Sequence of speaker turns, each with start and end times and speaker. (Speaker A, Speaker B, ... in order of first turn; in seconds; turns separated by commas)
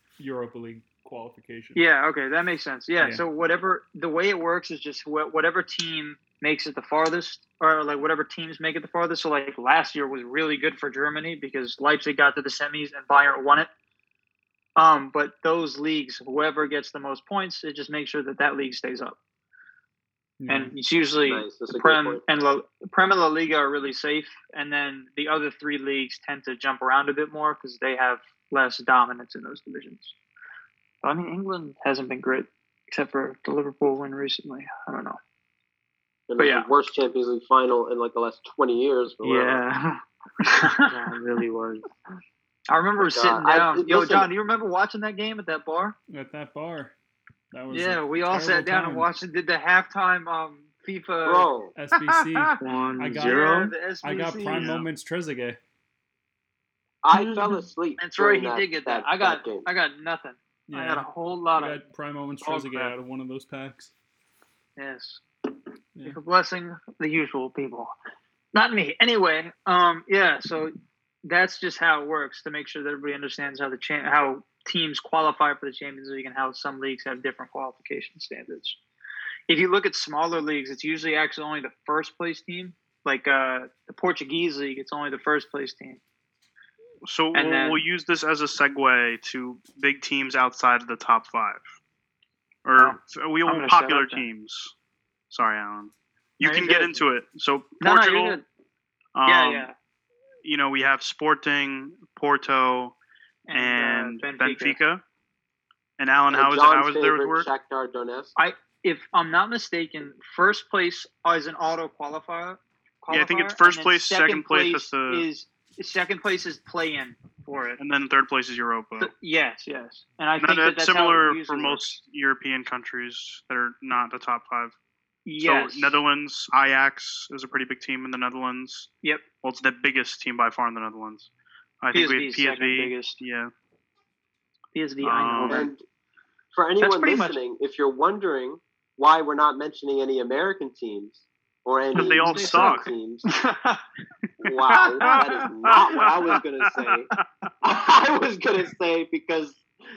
Speaker A: 0.2-1.8, Speaker B: 1.8-13.7, Speaker B: 14.8-19.2, Speaker A: 20.4-20.7, Speaker B: 20.5-30.1, Speaker C: 21.2-22.2, Speaker B: 31.0-35.2, Speaker C: 36.3-39.6, Speaker B: 36.4-36.7, Speaker D: 39.2-40.0, Speaker B: 40.4-40.9, Speaker D: 40.8-41.8, Speaker B: 42.7-46.0, Speaker C: 43.0-44.3, Speaker A: 46.1-46.9, Speaker A: 47.5-49.1, Speaker B: 47.7-51.5, Speaker C: 51.2-51.7, Speaker A: 51.7-55.6, Speaker D: 52.6-53.7, Speaker B: 53.1-54.8, Speaker E: 54.5-54.9, Speaker C: 57.0-59.7, Speaker B: 58.0-61.8, Speaker A: 60.7-63.9, Speaker B: 62.4-62.9, Speaker B: 64.8-65.2, Speaker B: 66.0-67.9, Speaker B: 68.5-70.7, Speaker B: 71.2-78.8, Speaker B: 79.5-86.0, Speaker E: 87.0-91.7, Speaker B: 87.3-87.8, Speaker E: 92.6-94.7, Speaker B: 92.8-94.2, Speaker E: 95.3-98.4, Speaker B: 96.4-97.0, Speaker B: 97.8-98.4, Speaker E: 99.1-99.7, Speaker B: 99.2-99.7, Speaker E: 100.4-103.0, Speaker B: 103.5-104.8, Speaker E: 103.5-105.0, Speaker E: 106.0-107.5, Speaker C: 106.3-108.3, Speaker B: 108.3-117.8, Speaker E: 113.1-115.2, Speaker E: 117.8-119.1, Speaker B: 119.0-122.0, Speaker E: 120.4-124.7, Speaker B: 125.2-126.0, Speaker E: 125.4-128.9, Speaker E: 129.4-131.3, Speaker E: 131.8-133.5, Speaker B: 131.9-133.2, Speaker B: 134.7-135.7, Speaker E: 135.0-135.7, Speaker C: 135.5-135.8, Speaker C: 136.5-143.3, Speaker B: 136.8-137.4, Speaker E: 141.9-142.9, Speaker B: 142.0-143.8, Speaker C: 144.4-147.1, Speaker E: 145.0-147.0, Speaker B: 145.0-145.3, Speaker C: 147.6-149.6